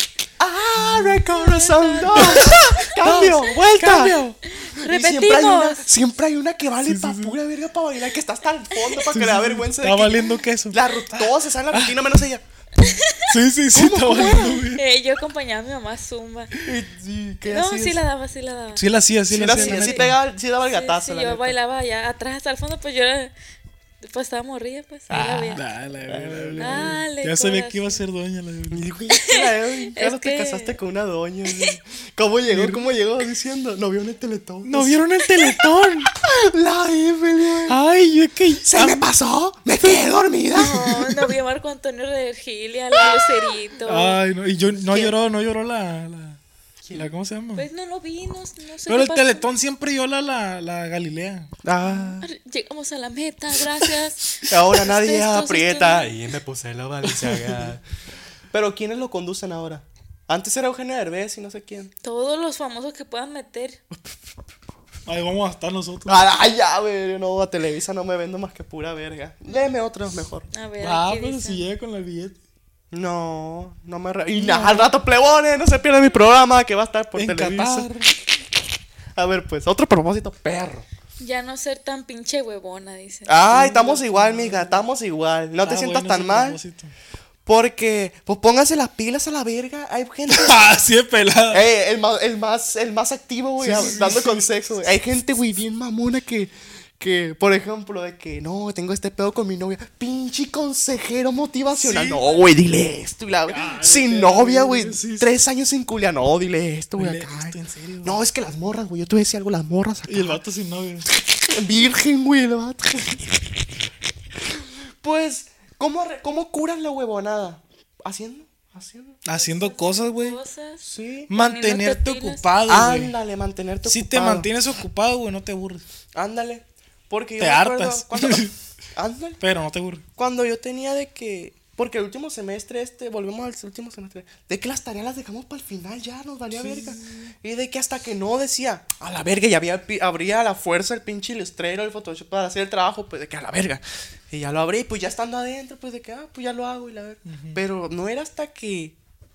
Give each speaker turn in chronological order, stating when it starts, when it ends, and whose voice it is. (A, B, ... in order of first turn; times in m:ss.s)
0:00.4-0:04.2 A
0:00.8-0:01.1 B
0:01.3-0:02.7 C
0:02.1-0:04.4 B
0:04.6-0:05.8 C
0:04.8-0:12.4 A
0:06.8-0:07.4 B
0:09.0-0:12.1 B
0:12.8-0:13.3 C
0:13.3-0:14.8 B
0:13.7-0:14.7 A
0:14.6-0:16.5 C
0:16.6-0:18.0 A
0:17.5-0:18.8 C
0:18.8-0:20.2 B
0:19.3-0:21.6 A
0:19.5-0:20.1 C
0:20.7-0:23.3 C
0:24.0-0:25.6 C
0:25.1-0:28.9 B
0:26.1-0:27.0 A
0:26.6-0:28.0 C
0:28.7-0:35.0 A
0:29.1-0:30.8 C
0:32.5-0:32.8 B
0:34.6-0:36.1 B
0:36.1-0:37.8 A
0:37.7-0:39.1 B
0:38.6-0:41.0 A
0:40.6-0:44.2 C
0:43.9-0:46.4 B
0:44.9-0:45.1 A
0:46.8-0:47.1 A
0:46.9-0:47.7 B
0:47.6-0:49.4 C
0:48.9-0:51.5 B
0:51.6-0:52.3 A
0:52.2-0:56.1 C
0:54.5-0:57.8 A
0:57.2-0:57.7 B
0:58.5-1:01.9 A
1:02.0-1:03.8 C
1:05.1-1:06.3 B
1:06.1-1:10.5 A
1:10.5-1:11.7 C
1:10.8-1:12.4 B
1:12.9-1:18.1 A
1:14.4-1:14.9 B
1:17.2-1:18.1 B
1:19.2-1:20.9 A
1:21.2-1:23.5 C
1:23.3-1:26.6 A
1:23.5-1:24.8 B
1:25.6-1:26.9 B
1:27.5-1:30.6 A
1:30.3-1:31.6 B
1:31.5-1:50.4 A
1:33.6-1:34.5 B
1:41.8-1:42.4 B
1:43.5-1:45.3 B
1:47.0-1:48.2 B
1:50.1-1:51.1 B
1:51.2-1:53.4 A
1:54.4-1:59.2 A
1:59.2-2:00.4 B
1:59.3-2:02.5 C
2:00.8-2:01.3 A
2:01.3-2:03.2 B
2:02.7-2:04.5 A
2:03.8-2:05.8 B
2:06.2-2:08.4 A
2:07.4-2:08.5 B
2:09.0-2:09.4 A
2:09.4-2:10.0 B
2:10.2-2:29.0 A
2:16.6-2:17.3 B
2:27.3-2:27.6 B